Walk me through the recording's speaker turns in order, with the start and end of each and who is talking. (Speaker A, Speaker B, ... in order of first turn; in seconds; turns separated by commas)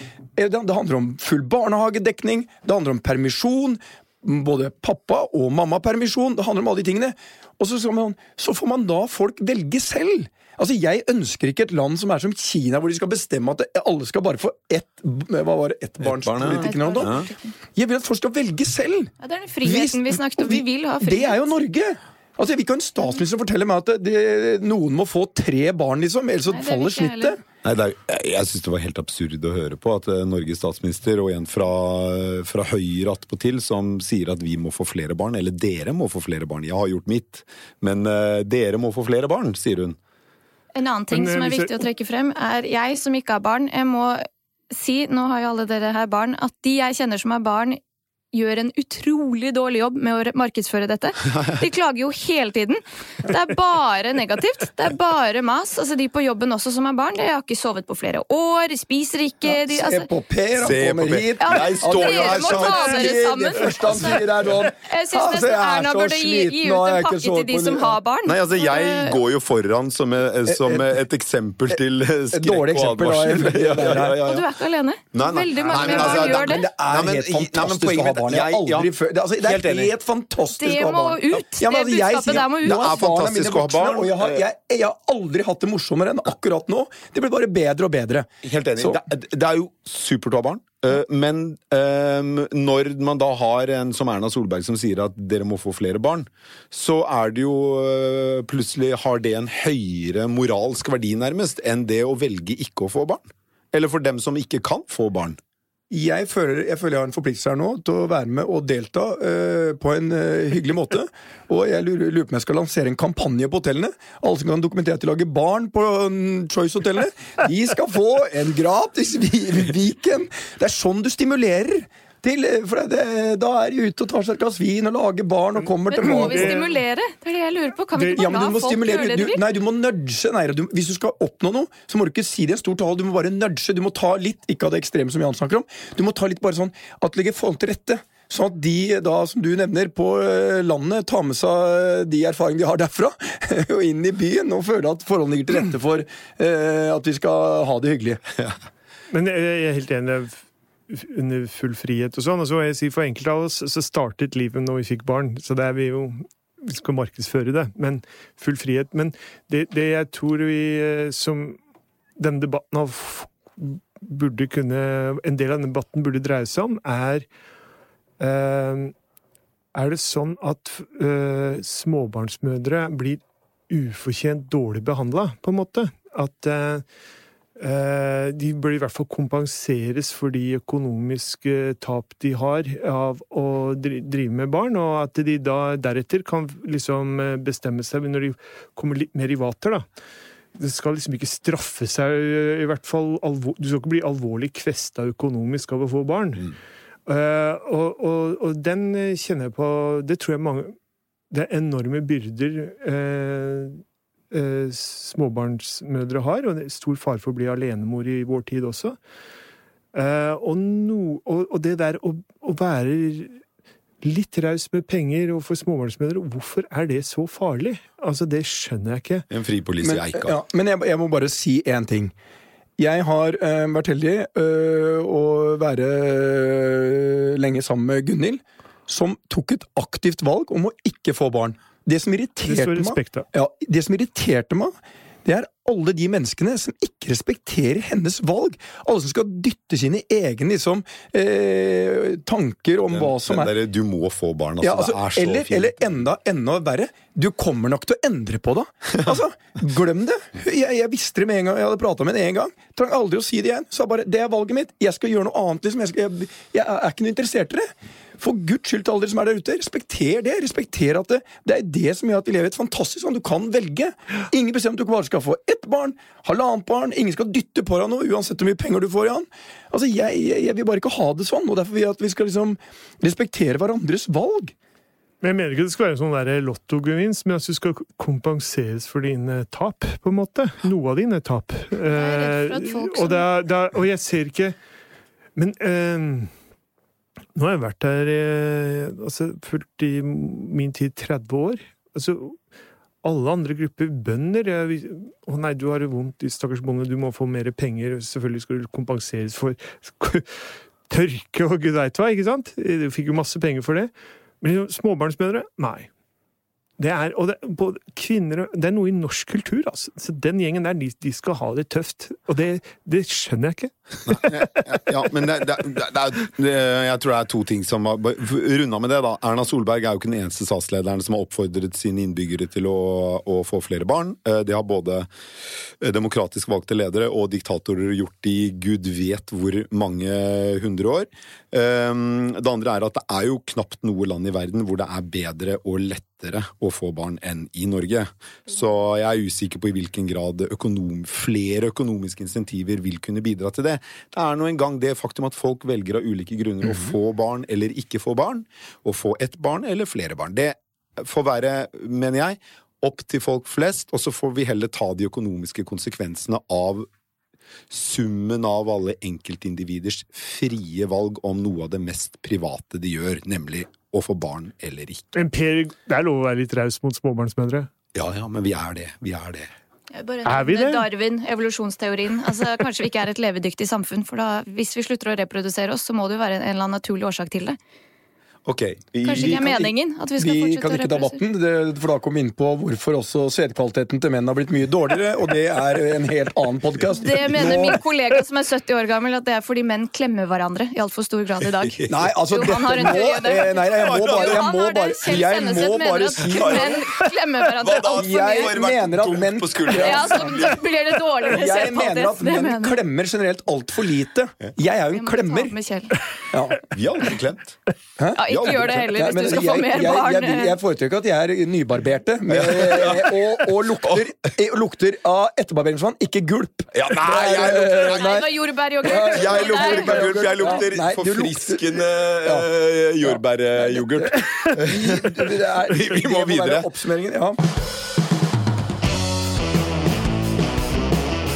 Speaker A: 0.3-17.1, Speaker B: 16.0-17.2, Speaker C: 16.4-17.5, Speaker A: 17.7-19.1, Speaker C: 19.2-21.4, Speaker A: 19.6-27.4, Speaker C: 26.5-27.3, Speaker B: 27.6-40.0, Speaker C: 40.7-47.8, Speaker D: 41.1-41.9, Speaker C: 48.3-60.1, Speaker A: 59.4-68.0, Speaker B: 60.6-63.1, Speaker C: 61.4-69.2, Speaker B: 68.2-74.5, Speaker A: 70.5-70.9, Speaker A: 72.3-74.2, Speaker C: 74.2-76.6, Speaker B: 75.1-79.9, Speaker A: 75.7-89.0, Speaker C: 80.5-83.0, Speaker B: 82.5-84.4, Speaker B: 88.4-105.4, Speaker A: 105.9-126.7, Speaker C: 125.9-129.4, Speaker D: 126.0-126.8, Speaker D: 127.9-128.2, Speaker A: 128.1-148.2, Speaker D: 149.1-161.6, Speaker D: 162.2-167.2, Speaker D: 168.2-168.9, Speaker D: 169.7-176.8, Speaker D: 177.6-189.8, Speaker D: 190.6-196.5, Speaker D: 197.1-200.8, Speaker D: 201.3-209.0, Speaker D: 209.9-213.4, Speaker D: 214.0-219.3, Speaker B: 219.3-220.3, Speaker A: 219.8-222.1, Speaker A: 222.8-243.5, Speaker D: 232.4-233.3, Speaker B: 242.9-246.0, Speaker A: 244.6-274.5, Speaker D: 275.2-284.6, Speaker C: 281.9-283.2, Speaker D: 285.4-286.3, Speaker D: 287.3-292.4, Speaker D: 293.0-305.9, Speaker D: 306.8-314.6, Speaker B: 314.1-325.1, Speaker B: 325.8-356.9, Speaker B: 357.7-365.1, Speaker D: 365.1-367.7, Speaker B: 367.9-369.5, Speaker C: 369.9-377.6, Speaker D: 370.2-370.9, Speaker B: 378.4-379.5, Speaker C: 379.0-381.2, Speaker A: 379.0-387.8, Speaker C: 386.9-398.5, Speaker B: 391.6-392.1, Speaker A: 391.9-396.9, Speaker B: 393.8-394.5, Speaker B: 396.2-397.0, Speaker B: 397.6-400.6, Speaker A: 398.0-400.5, Speaker C: 399.7-402.8, Speaker A: 401.2-405.5, Speaker C: 404.9-406.0, Speaker A: 406.3-406.6, Speaker B: 406.7-407.6, Speaker A: 408.0-422.5, Speaker C: 408.1-410.6, Speaker B: 408.3-408.8, Speaker B: 412.3-414.1, Speaker B: 416.7-418.2, Speaker C: 417.4-420.7, Speaker B: 419.0-426.7, Speaker A: 423.0-427.4